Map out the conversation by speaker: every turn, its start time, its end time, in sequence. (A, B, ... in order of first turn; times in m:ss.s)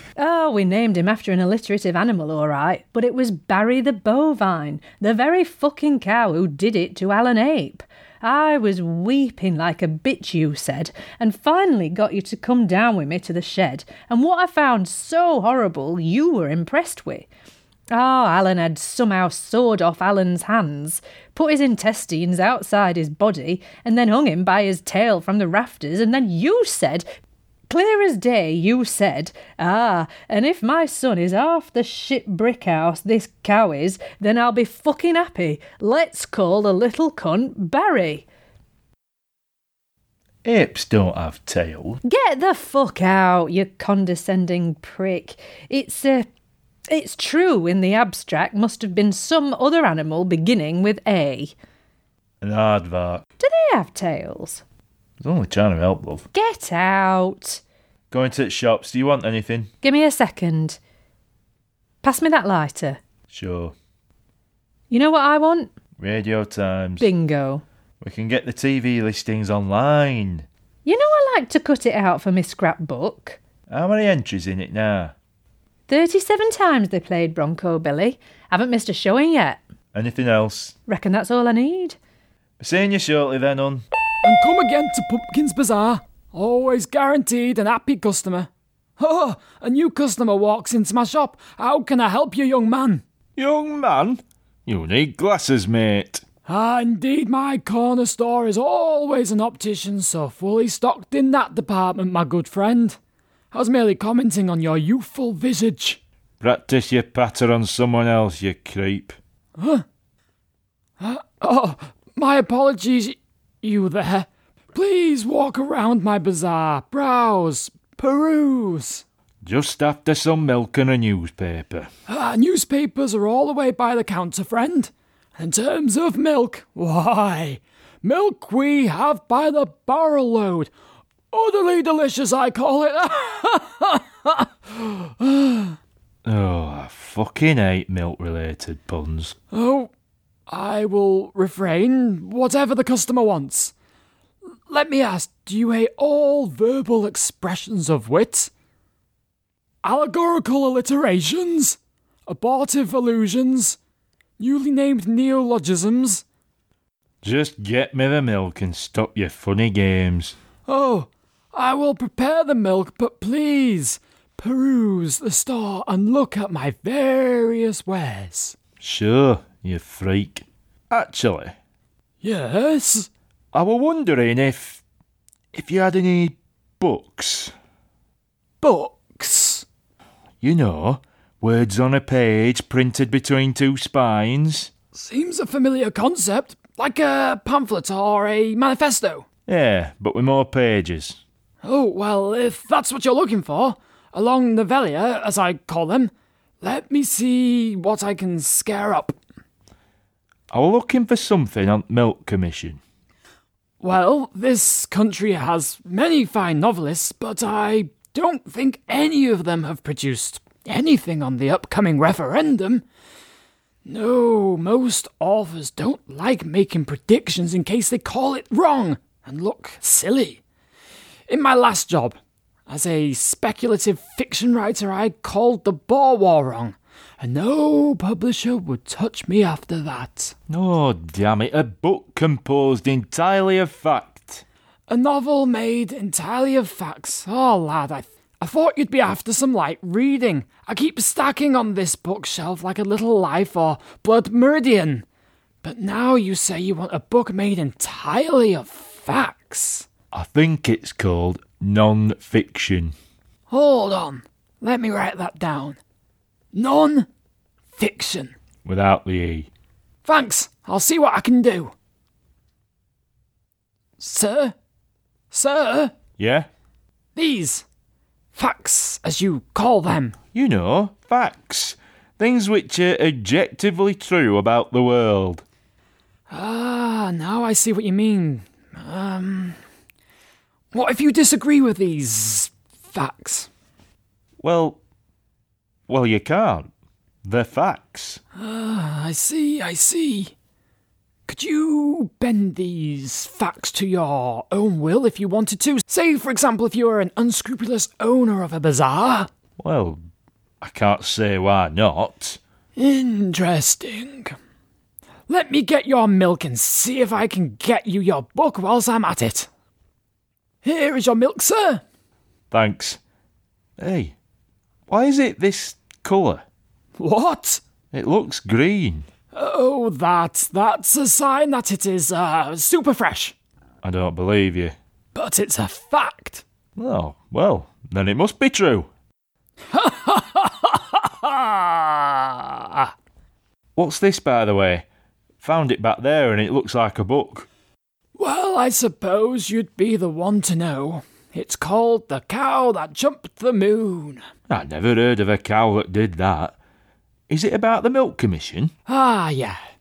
0:00.2-0:17.3 A
0:17.9-0:27.0 A
0:27.7-0:38.3 A
0:40.4-0:42.0 B
0:42.0-0:46.3 A
0:46.9-0:51.6 A
0:52.4-0:53.3 B
0:53.4-0:54.6 A
0:55.2-0:56.3 B
0:56.3-0:57.6 A
0:58.1-0:59.7 B
0:59.8-1:00.8 A
1:02.0-1:03.0 A
1:03.3-1:03.8 B
1:04.9-1:05.7 A
1:06.0-1:07.1 B
1:07.0-1:07.6 A
1:08.0-1:10.5 B
1:10.9-1:13.4 A
1:13.7-1:15.1 B
1:15.9-1:19.6 A
1:19.9-1:20.8 B
1:20.9-1:22.0 A
1:22.6-1:23.8 B
1:24.2-1:33.0 C
1:33.4-1:36.2 B
1:36.5-1:43.0 C
1:43.5-1:46.0 C
1:46.4-1:49.2 B
1:49.6-1:49.8 C
1:51.0-1:59.0 C
1:59.4-2:01.9 B
2:02.1-2:10.7 C
2:11.3-2:15.8 C
2:16.2-2:19.4 B
2:19.5-2:19.9 C
2:20.5-2:23.7 C
2:24.7-2:28.5 C
2:29.8-2:33.8 C
2:34.4-2:36.2 C
2:37.2-2:40.4 B
2:40.7-2:48.6 C
2:48.8-2:51.6 B
2:52.2-2:53.1 C
2:53.5-2:54.8 B
2:55.5-2:57.5 B
2:58.6-2:59.6 C
3:00.4-3:04.7 B
3:04.9-3:09.3 C
3:09.5-3:11.2 B
3:11.6-3:19.2 C
3:20.5-3:22.8 B
3:23.8-3:32.8 C
3:33.9-3:40.4 C
3:41.3-3:50.3 C
3:50.5-3:54.4 B
3:54.9-4:05.0 C
4:05.6-4:09.9 C
4:10.1-4:13.0 B
4:13.5-4:15.8 C
4:16.5-4:17.1 C
4:17.8-4:18.4 C
4:18.6-4:19.5 B
4:20.0-4:21.7 C
4:24.0-4:24.5 C
4:25.3-4:26.0 C
4:26.2-4:26.5 B
4:27.2-4:27.6 C
4:28.4-4:30.2 C
4:30.3-4:35.4 B
4:36.3-4:39.6 C
4:40.7-4:43.5 C
4:44.4-4:44.8 B
4:45.9-4:46.7 B
4:47.2-4:48.2 B
4:48.4-4:50.3 C
4:51.3-4:59.3 C
4:59.6-5:00.0 B
5:00.6-5:02.4 B
5:02.8-5:04.4 C
5:05.3-5:09.5 C
5:10.6-5:11.8 C
5:12.5-5:13.0 B
5:13.8-5:14.2 B
5:14.9-5:16.4 B
5:17.0-5:17.6 C
5:17.9-5:19.1 B
5:19.3-5:23.4 C
5:23.8-5:24.8 B
5:25.2-5:26.4 C
5:26.8-5:28.9 B
5:29.7-5:32.9 C
5:33.8-5:34.9 B
5:35.4-5:37.5 B
5:38.2-5:44.2 C
5:44.5-5:46.6 B
5:47.3-5:48.7 B
5:48.9-5:49.6 C